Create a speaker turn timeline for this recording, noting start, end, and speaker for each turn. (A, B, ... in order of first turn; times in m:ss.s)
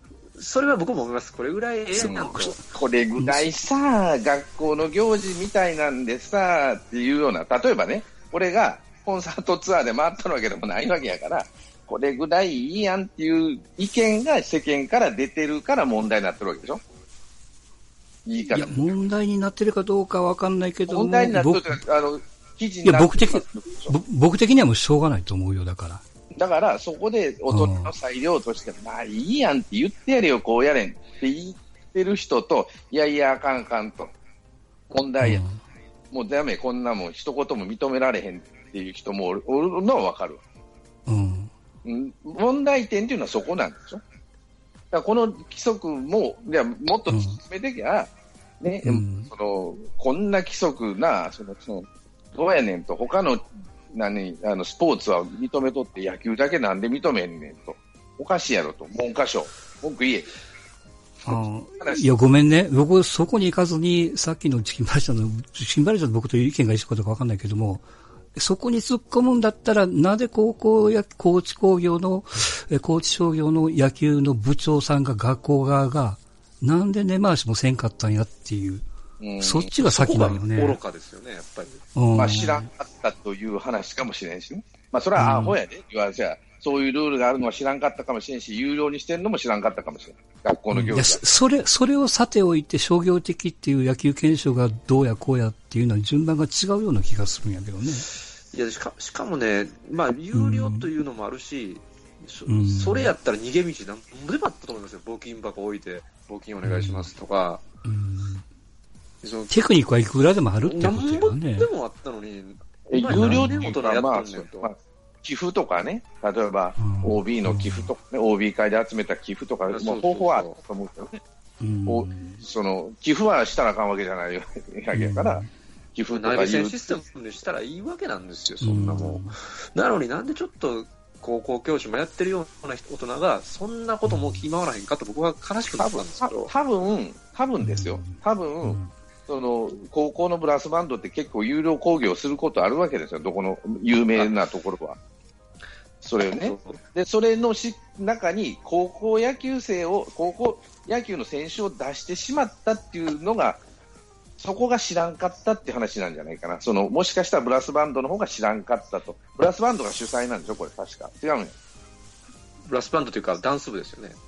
0:00.4-0:02.6 A
0:02.0-0:16.8 B
0:02.0-0:02.5 C
0:03.2-0:03.5 C
0:18.2-0:18.8 B
0:18.5-0:21.8 C
0:20.9-0:23.9 B
0:22.8-0:26.0 C
0:26.4-0:34.1 B
0:27.5-0:27.9 C
0:34.9-0:35.4 B
0:35.2-0:35.6 C
0:36.1-0:40.4 B
0:41.1-0:41.5 C
0:41.8-0:44.0 B
0:44.9-1:00.3 B
0:47.1-0:47.4 C
0:48.8-0:49.3 C
1:01.2-1:18.8 C
1:01.3-1:02.0 B
1:19.2-1:19.7 B
1:19.4-1:20.8 C
1:19.8-1:21.8 A
1:21.9-1:22.7 C
1:22.1-1:31.2 B
1:25.2-1:25.6 C
1:30.7-1:38.1 C
1:38.5-1:47.6 A
1:40.3-1:40.9 C
1:42.5-1:43.1 C
1:46.6-1:47.1 C
1:47.8-1:48.4 C
1:49.2-1:49.6 A
1:49.5-1:51.7 C
1:50.6-1:54.7 A
1:52.9-2:01.2 B
1:53.1-1:53.7 C
1:56.8-1:57.9 C
1:59.7-2:00.6 A
2:01.6-2:02.4 C
2:01.8-2:05.4 B
2:04.9-2:05.5 C
2:05.9-2:07.0 B
2:06.1-2:16.5 A
2:08.6-2:09.3 C
2:14.1-2:14.4 C
2:15.8-2:25.0 B
2:17.6-2:18.9 C
2:26.0-2:33.6 B
2:26.4-2:26.8 A
2:34.4-2:41.5 B
2:42.7-2:44.2 A